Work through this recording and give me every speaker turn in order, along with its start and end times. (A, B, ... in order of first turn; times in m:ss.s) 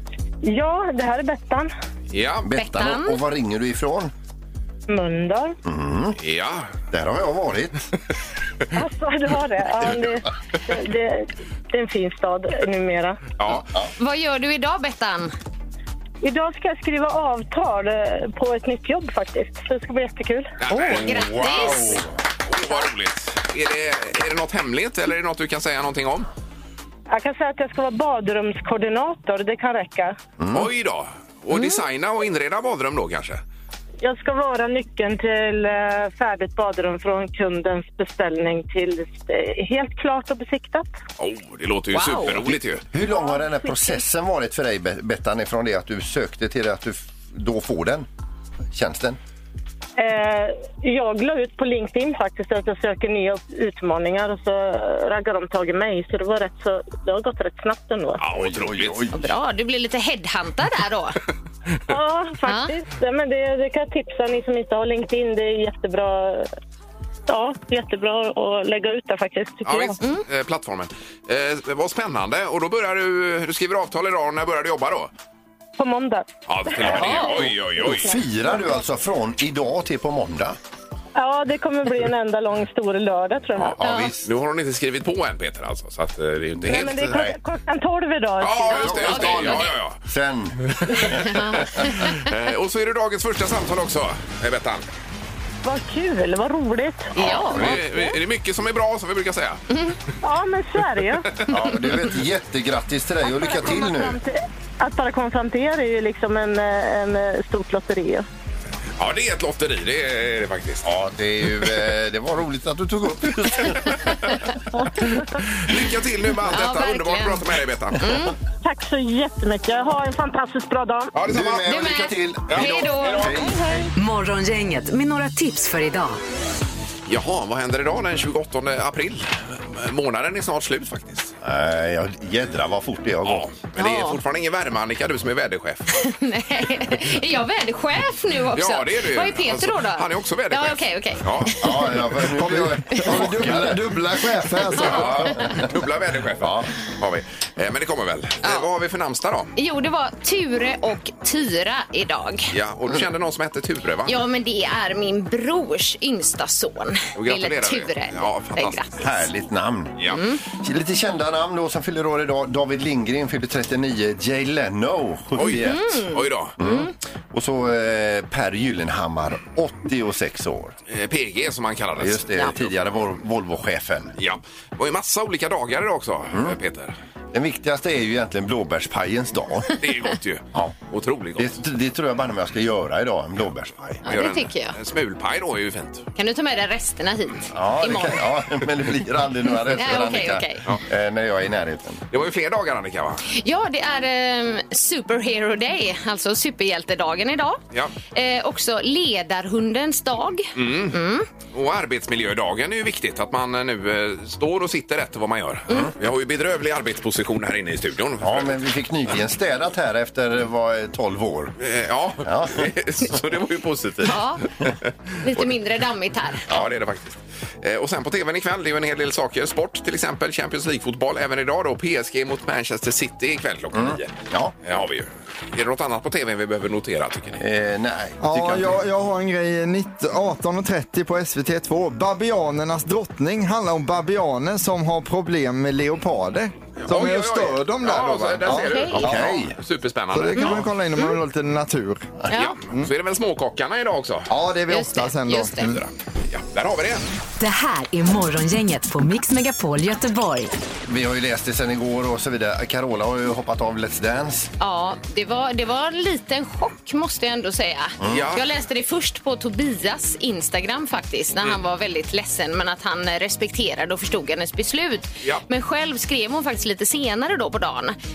0:00.4-0:01.7 A
0:02.1-0:02.5 B
0:02.4-0:04.1 C
0:02.6-0:03.2 D
0:04.9-0:05.6 A
0:05.6-0:06.2 C
0:06.2-0:06.7 B
0:06.9-0:07.9 C
0:08.7-0:13.2 A
0:13.4-0:13.7 B
0:13.5-0:13.9 C
0:14.0-0:15.3 D
0:16.2-0:20.5 A
0:20.6-0:26.3 B
0:20.7-0:22.0 D
0:21.0-0:22.1 C
0:27.1-0:30.2 A
0:30.4-0:30.7 C
0:30.5-0:33.4 B
0:34.0-0:40.9 A
0:41.2-0:42.9 B
0:41.9-0:42.4 D
0:42.4-0:48.1 C
0:43.1-0:43.9 A
0:48.7-0:49.2 C
0:50.0-0:58.2 A
0:58.2-0:59.1 B
0:58.3-0:59.2 C
0:59.1-1:01.2 D
1:01.9-1:06.5 A
1:02.4-1:02.7 D
1:07.3-1:10.0 A
1:09.6-1:15.1 B
1:15.8-1:17.2 A
1:16.5-1:18.2 B
1:16.8-1:20.6 C
1:21.2-1:23.8 A
1:23.6-1:27.2 B
1:23.8-1:24.2 C
1:23.8-1:24.1 D
1:26.6-1:27.4 C
1:26.7-1:29.2 A
1:28.4-1:30.0 B
1:28.7-1:29.8 D
1:28.8-1:32.0 C
1:30.8-1:34.8 B
1:31.2-1:32.2 D
1:35.6-1:37.1 A
1:37.2-1:38.2 D
1:37.2-1:39.6 B
1:37.2-1:37.8 C
1:39.7-1:40.0 D
1:40.2-1:41.4 A
1:41.5-1:44.2 C
1:43.3-1:48.3 A
1:49.0-1:50.8 B
1:50.8-1:54.3 C
1:53.7-1:54.0 B
1:54.7-1:55.4 A
1:55.5-1:58.3 B
1:56.5-1:57.4 D
1:58.0-1:58.4 D
1:58.6-2:01.1 A
2:01.1-2:01.9 B
2:01.2-2:03.6 C
2:01.6-2:03.3 D
2:02.5-2:03.5 B
2:03.4-2:03.9 A
2:04.0-2:06.2 E
2:07.1-2:11.4 B
2:11.4-2:13.5 C
2:13.2-2:16.0 B
2:13.8-2:14.2 D
2:16.0-2:21.9 D
2:18.5-2:22.0 B
2:21.6-2:23.9 C
2:22.2-2:25.4 F
2:24.8-2:29.5 B
2:24.8-2:25.7 C
2:26.4-2:26.7 C
2:29.6-2:32.5 D
2:32.5-2:34.2 B
2:34.1-2:39.1 D
2:37.2-2:39.0 B
2:39.0-2:40.0 C
2:40.0-2:40.2 B
2:40.1-2:40.4 D
2:40.5-2:50.8 C
2:45.4-2:46.6 B
2:45.5-2:46.9 D
2:50.9-2:52.7 B
2:52.0-2:54.1 C
2:54.2-2:57.0 B
2:57.3-2:59.8 C
2:59.8-3:01.5 B
3:01.4-3:04.0 C
3:04.0-3:06.1 B
3:04.0-3:04.7 D
3:06.2-3:08.2 D
3:07.5-3:12.0 C
3:09.7-3:10.7 D
3:12.1-3:13.2 B
3:13.3-3:17.6 D
3:18.1-3:21.3 D
3:20.6-3:28.6 B
3:28.2-3:31.5 C
3:31.6-3:35.5 B
3:32.2-3:32.7 C
3:34.0-3:34.4 D
3:35.2-3:36.5 D
3:36.5-3:47.4 B
3:43.7-3:44.5 C
3:47.4-3:48.8 C
3:48.2-3:59.3 F
3:56.8-4:00.7 B
3:58.5-3:59.0 D
3:59.0-3:59.6 C
4:00.1-4:02.1 F
4:00.4-4:01.1 D
4:02.3-4:02.6 D
4:02.3-4:04.3 B
4:04.3-4:05.8 F
4:04.7-4:05.8 D
4:05.6-4:07.0 B
4:07.4-4:10.5 E
4:10.9-4:14.5 C
4:14.6-4:28.0 D
4:18.0-4:18.3 C
4:18.1-4:18.4 B